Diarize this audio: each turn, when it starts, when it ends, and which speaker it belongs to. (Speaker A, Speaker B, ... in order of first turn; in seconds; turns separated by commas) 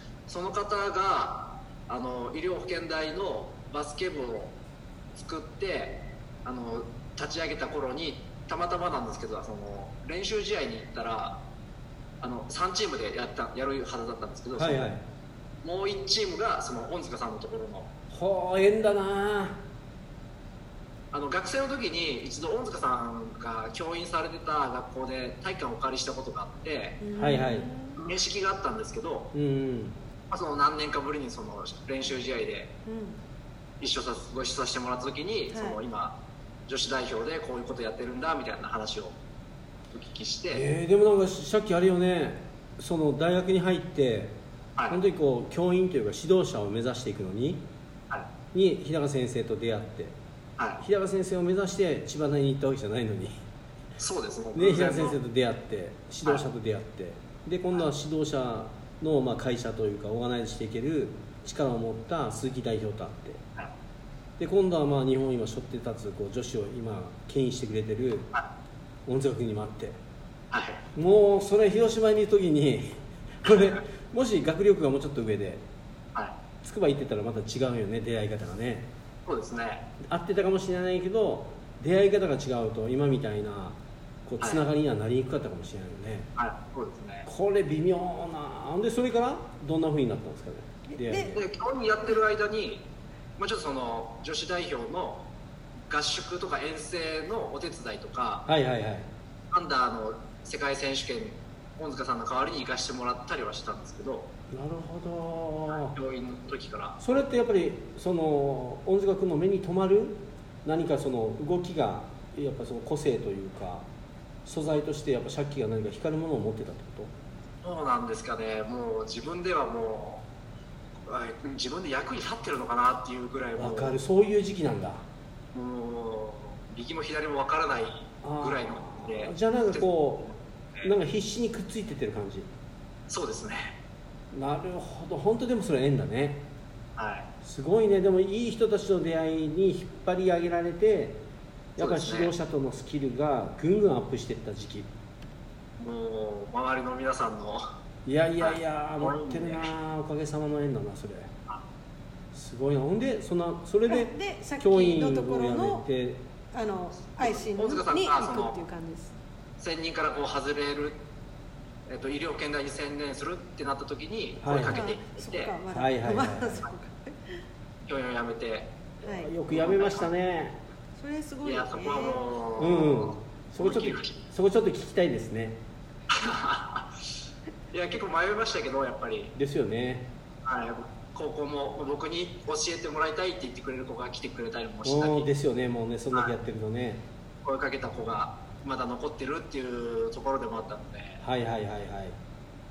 Speaker A: 0.3-4.5, Speaker A: 5.1-11.4, Speaker A: 12.2-14.9, Speaker B: 14.6-15.0, Speaker A: 15.6-17.9, Speaker B: 18.1-19.6, Speaker A: 21.1-27.0, Speaker C: 27.0-28.0, Speaker B: 27.1-27.7, Speaker A: 27.9-29.3, Speaker B: 29.3-29.9, Speaker A: 30.3-32.7, Speaker C: 32.9-33.2, Speaker A: 33.8-36.1, Speaker C: 35.5-35.8, Speaker A: 36.7-39.1, Speaker A: 39.9-40.6, Speaker B: 40.5-44.3, Speaker B: 44.9-47.6, Speaker B: 48.5-50.1, Speaker B: 50.8-53.4, Speaker A: 54.0-55.1, Speaker B: 54.5-63.4, Speaker B: 64.4-68.3, Speaker B: 69.0-70.0, Speaker A: 70.5-70.8, Speaker B: 70.9-75.6, Speaker B: 76.6-78.9, Speaker A: 79.2-79.8, Speaker B: 80.0-86.3, Speaker A: 86.4-87.3, Speaker B: 87.2-91.4, Speaker C: 90.9-91.3, Speaker A: 91.3-92.8, Speaker A: 93.4-95.2, Speaker A: 95.9-98.5, Speaker B: 98.5-99.1, Speaker A: 99.5-104.3, Speaker B: 104.5-106.0, Speaker A: 105.8-107.0, Speaker B: 107.0-113.8, Speaker B: 114.4-117.1, Speaker A: 117.6-120.2, Speaker A: 121.0-124.0, Speaker B: 123.6-125.0, Speaker A: 125.5-130.9, Speaker B: 128.2-130.3, Speaker B: 130.8-132.5, Speaker A: 133.1-133.7, Speaker B: 134.3-136.4, Speaker A: 136.9-137.3, Speaker B: 137.4-141.2, Speaker B: 141.8-144.9, Speaker A: 141.8-142.3, Speaker A: 145.8-147.7, Speaker B: 148.0-151.3, Speaker A: 148.4-149.7, Speaker B: 152.3-156.2, Speaker C: 153.9-155.8, Speaker C: 156.5-159.1, Speaker A: 157.2-158.6, Speaker A: 159.6-161.0, Speaker A: 161.9-165.5, Speaker B: 164.4-164.9, Speaker C: 164.7-167.4, Speaker B: 165.7-166.7, Speaker A: 167.9-168.7, Speaker B: 169.0-170.6, Speaker C: 169.0-169.3, Speaker A: 169.5-170.1, Speaker C: 171.0-172.2, Speaker A: 171.4-174.2, Speaker B: 172.6-175.6, Speaker A: 176.1-177.0, Speaker A: 177.7-179.3, Speaker B: 179.3-180.1, Speaker A: 180.4-185.3, Speaker B: 184.8-187.0, Speaker A: 187.4-191.2, Speaker B: 191.2-192.2